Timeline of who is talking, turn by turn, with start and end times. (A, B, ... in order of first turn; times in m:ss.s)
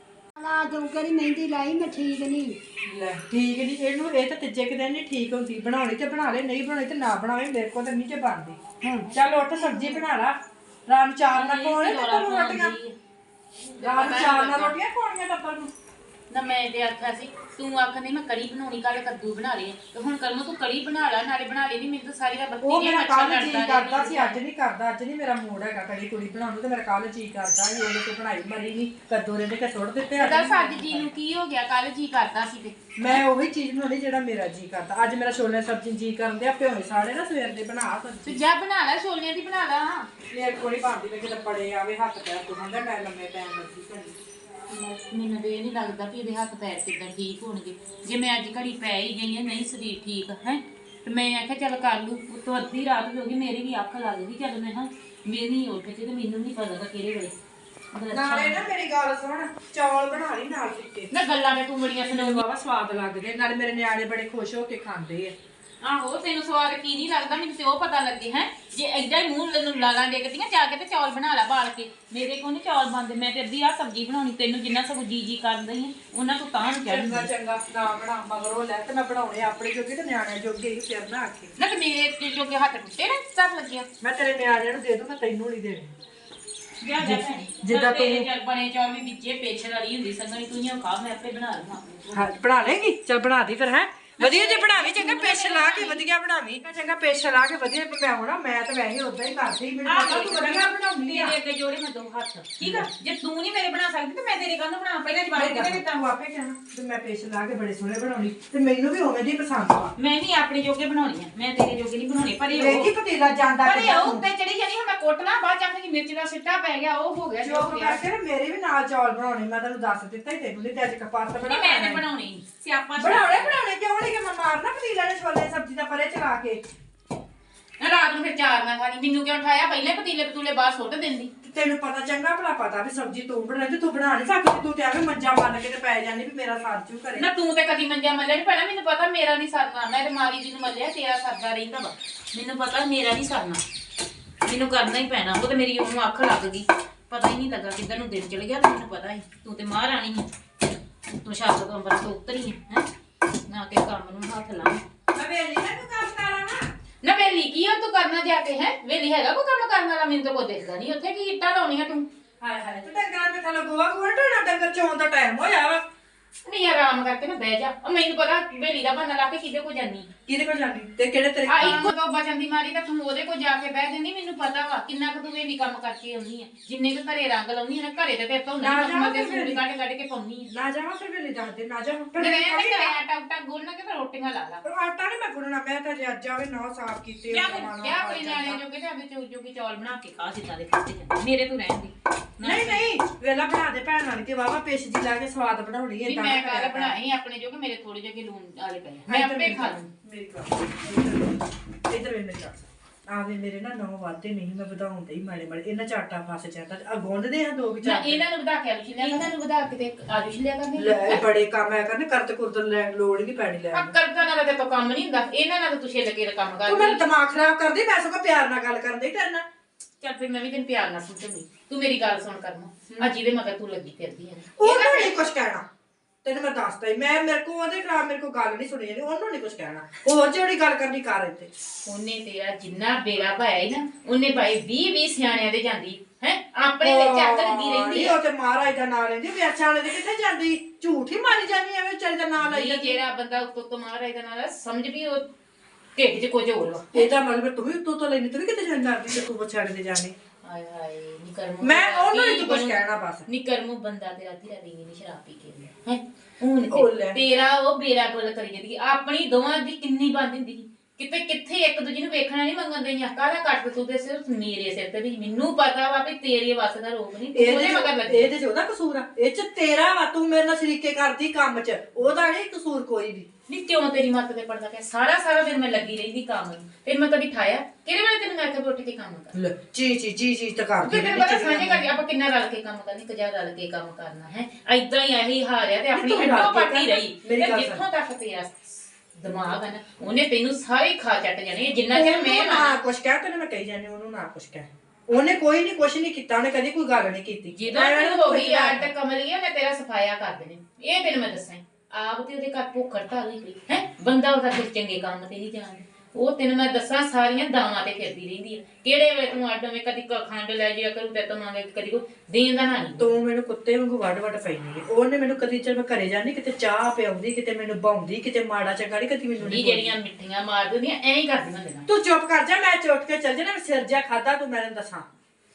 0:00.4-0:02.6 A
0:02.8-0:08.6 B
0:08.8-0:10.0 C
0:09.1-0:12.7 B
0:11.3-0:13.0 C
0:13.7-0:14.8 C
0:13.8-0:15.7 B
0:16.3-0:24.4 C
0:22.6-0:31.1 B
0:30.2-0:32.8 C
0:33.0-0:38.4 B
0:38.2-0:40.1 C
0:40.3-0:44.1 B
0:44.7-0:57.3 C
0:57.9-0:58.6 C
0:58.1-1:01.1 B
1:01.1-1:02.4 C
1:02.0-1:05.4 B
1:05.8-1:17.3 C
1:16.8-1:21.6 B
1:21.6-1:23.9 C
1:24.0-1:26.0 B
1:26.8-1:32.4 C
1:27.0-1:28.3 B
1:32.1-1:41.4 B
1:34.2-1:36.0 C
1:39.9-1:45.9 C
1:42.6-1:42.9 B
1:45.3-1:49.9 B
1:50.0-1:52.9 C
1:52.5-1:54.2 B
1:53.6-1:58.0 C
1:57.4-2:02.0 B
2:01.4-2:03.6 C
2:03.0-2:06.6 B
2:07.8-2:11.3 C
2:11.4-2:17.3 B
2:17.2-2:23.6 C
2:24.4-2:30.3 C
2:31.1-2:32.9 C
2:33.5-2:34.8 C
2:35.1-2:36.7 B
2:37.0-2:42.1 C
2:42.4-2:45.8 B
2:46.4-2:50.1 C
2:50.3-2:51.9 B
2:51.5-3:00.5 C
2:58.6-2:59.6 B
3:00.5-3:03.0 B
3:02.2-3:04.6 C
3:04.6-3:08.6 B
3:07.3-3:12.9 C
3:12.4-3:17.0 B
3:16.0-3:19.9 C
3:19.1-3:28.2 B
3:27.8-3:31.2 C
3:29.0-3:29.3 B
3:30.8-3:34.0 B
3:33.7-3:37.0 C
3:36.6-3:39.4 B
3:40.0-3:45.2 C
3:44.6-3:45.6 B
3:46.2-3:51.5 B
3:51.9-3:58.2 C
3:56.8-4:03.0 B
4:02.4-4:05.3 C
4:06.0-4:07.1 C
4:06.9-4:10.2 B
4:10.4-4:28.3 C
4:11.6-4:13.3 B
4:16.7-4:17.2 B
4:27.3-4:33.3 B
4:33.5-4:39.4 C
4:39.3-4:41.9 B
4:40.8-4:52.8 C
4:45.9-4:47.8 B
4:51.9-4:58.9 B
4:57.6-5:13.1 C
5:13.0-5:20.0 B
5:19.4-5:21.9 C
5:21.9-5:25.1 B